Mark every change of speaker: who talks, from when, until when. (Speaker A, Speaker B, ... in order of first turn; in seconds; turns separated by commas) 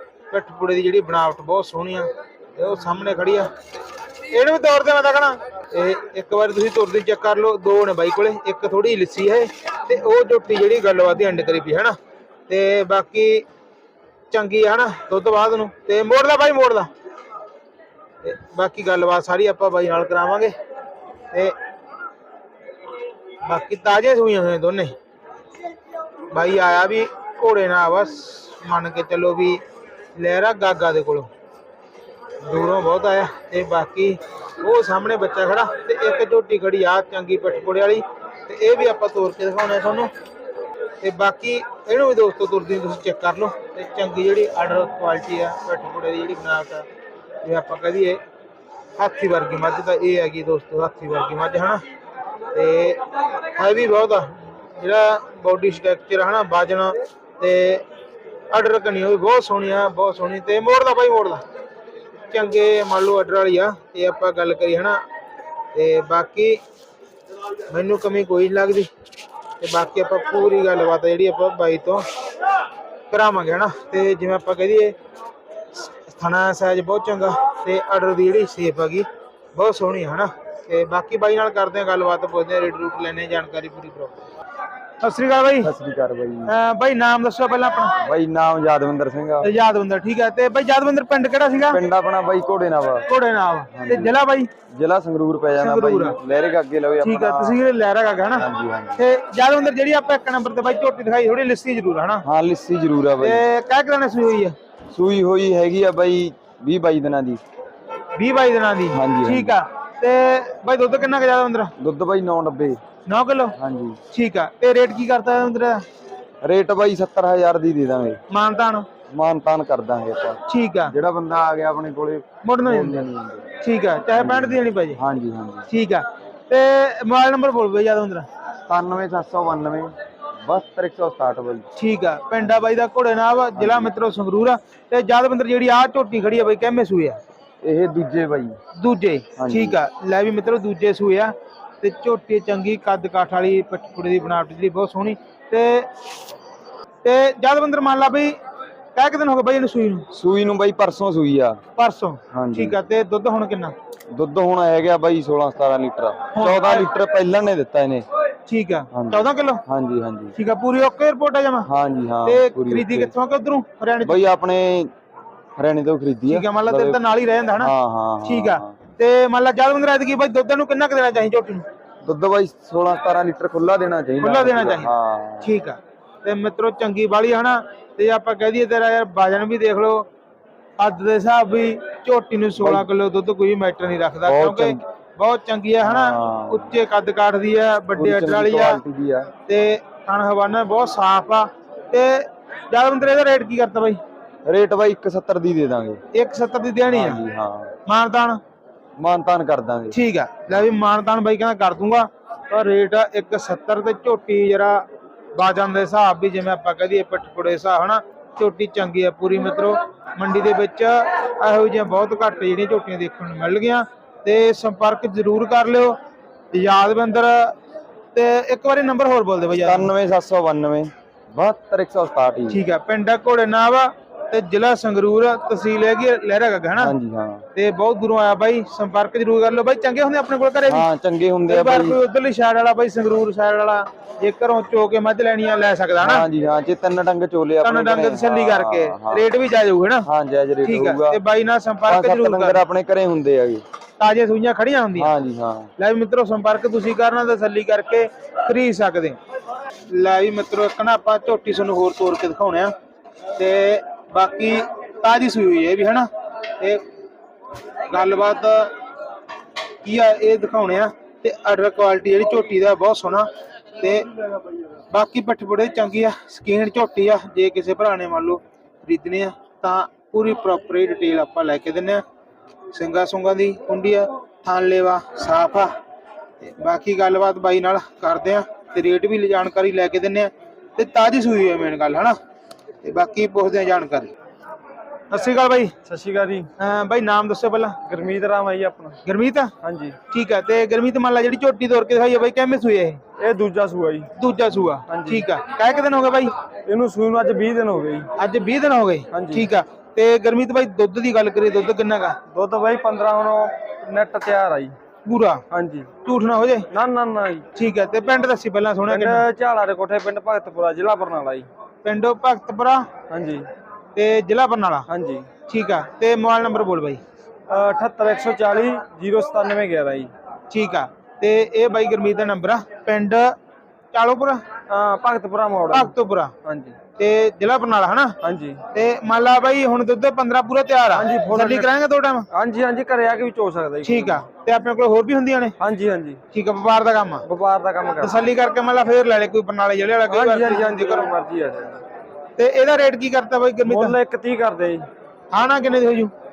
Speaker A: 0.3-3.5, Speaker A: 4.3-11.9, Speaker A: 12.5-13.4, Speaker A: 14.3-16.9, Speaker A: 18.2-20.5, Speaker A: 23.4-24.9, Speaker A: 26.3-29.6, Speaker A: 30.2-31.3, Speaker A: 32.4-40.1, Speaker A: 41.0-46.9, Speaker A: 47.4-48.2, Speaker A: 49.0-51.8, Speaker A: 52.5-53.0, Speaker A: 53.5-57.8, Speaker A: 58.5-61.4, Speaker A: 62.3-65.0, Speaker A: 65.7-66.6, Speaker A: 67.7-68.9, Speaker A: 69.6-72.0, Speaker A: 73.1-75.0, Speaker A: 75.8-84.1, Speaker A: 85.0-85.7, Speaker B: 85.6-86.5, Speaker A: 86.5-88.0, Speaker B: 88.0-89.5, Speaker A: 89.4-91.8, Speaker B: 91.7-93.0, Speaker A: 93.1-94.5, Speaker B: 93.7-94.2, Speaker B: 94.7-97.6, Speaker A: 95.6-96.2, Speaker A: 97.0-102.2, Speaker B: 98.3-99.0, Speaker B: 102.2-103.4, Speaker A: 103.2-104.5, Speaker B: 104.9-107.4, Speaker A: 108.1-111.7, Speaker B: 108.9-109.6, Speaker B: 111.8-112.8, Speaker A: 113.0-113.5, Speaker B: 113.6-114.0, Speaker A: 114.1-115.8, Speaker B: 116.4-118.2, Speaker A: 118.3-118.9, Speaker B: 119.1-123.5, Speaker A: 120.5-120.9, Speaker A: 122.4-123.1, Speaker A: 123.6-125.0, Speaker B: 124.1-125.7, Speaker A: 125.7-128.3, Speaker B: 128.7-131.7, Speaker A: 131.8-137.2, Speaker B: 133.5-133.9, Speaker B: 137.6-138.6, Speaker A: 138.8-145.9, Speaker B: 139.4-139.8, Speaker A: 147.0-148.4, Speaker A: 148.9-150.1, Speaker B: 150.1-151.6, Speaker A: 151.8-153.7, Speaker B: 152.3-152.8, Speaker B: 154.1-158.1, Speaker A: 156.3-156.9, Speaker A: 158.4-159.6, Speaker B: 158.9-160.3, Speaker A: 160.3-161.7, Speaker B: 161.7-163.1, Speaker A: 162.2-164.3, Speaker B: 164.0-164.9, Speaker B: 165.6-167.0, Speaker A: 166.3-167.7, Speaker B: 167.5-168.7, Speaker A: 168.2-171.7, Speaker B: 172.0-175.5, Speaker A: 174.2-174.9, Speaker A: 175.4-180.1, Speaker A: 180.8-188.8, Speaker B: 182.6-182.9, Speaker B: 184.2-184.8, Speaker B: 185.8-186.7, Speaker B: 187.9-189.3, Speaker A: 189.4-194.0, Speaker B: 194.4-196.0, Speaker A: 196.1-197.2, Speaker B: 196.9-197.7, Speaker A: 197.8-198.4, Speaker B: 199.0-199.9, Speaker A: 199.9-216.0, Speaker B: 200.5-200.8, Speaker A: 216.5-217.5, Speaker A: 218.1-219.9, Speaker B: 219.6-222.6, Speaker A: 222.5-226.9, Speaker B: 226.8-227.4, Speaker A: 227.5-230.9, Speaker B: 230.6-232.0, Speaker A: 231.5-236.2, Speaker B: 236.0-239.3, Speaker A: 237.6-240.1, Speaker B: 240.0-241.2, Speaker A: 240.6-242.6, Speaker B: 241.8-243.6, Speaker A: 244.0-245.1, Speaker B: 244.9-245.7, Speaker A: 245.8-249.2, Speaker A: 249.9-252.7, Speaker A: 253.3-256.1, Speaker A: 257.9-258.7, Speaker A: 259.8-263.3, Speaker A: 263.8-264.1, Speaker A: 264.9-272.0, Speaker A: 272.7-275.7, Speaker A: 276.4-282.1, Speaker A: 282.8-284.1, Speaker A: 285.1-285.7, Speaker C: 285.8-286.5, Speaker A: 286.6-287.8, Speaker C: 287.8-289.0, Speaker A: 289.0-289.5, Speaker C: 289.6-289.9, Speaker A: 290.1-293.0, Speaker C: 293.2-294.1, Speaker A: 294.2-296.3, Speaker C: 294.9-295.3, Speaker C: 296.6-298.1, Speaker A: 298.2-302.2, Speaker C: 299.1-299.5, Speaker C: 302.3-304.7, Speaker A: 305.0-305.4, Speaker C: 305.5-305.9, Speaker A: 306.0-306.7, Speaker C: 306.7-307.5, Speaker A: 307.5-309.2, Speaker C: 308.8-311.5, Speaker A: 311.8-312.9, Speaker C: 313.1-313.5, Speaker A: 313.9-314.9, Speaker C: 314.9-315.3, Speaker A: 315.5-317.0, Speaker C: 317.5-320.1, Speaker A: 320.5-323.4, Speaker A: 323.9-324.4, Speaker C: 324.7-325.9, Speaker A: 325.7-326.3, Speaker C: 326.4-326.8, Speaker A: 326.9-328.1, Speaker C: 328.2-328.6, Speaker A: 328.7-332.2, Speaker C: 330.9-331.7, Speaker C: 332.3-334.2, Speaker A: 333.8-335.5, Speaker C: 335.6-336.2, Speaker A: 336.3-337.2, Speaker C: 337.2-338.3, Speaker A: 338.0-341.1, Speaker C: 340.1-341.8, Speaker A: 342.4-344.0, Speaker C: 343.6-344.9, Speaker A: 345.3-346.1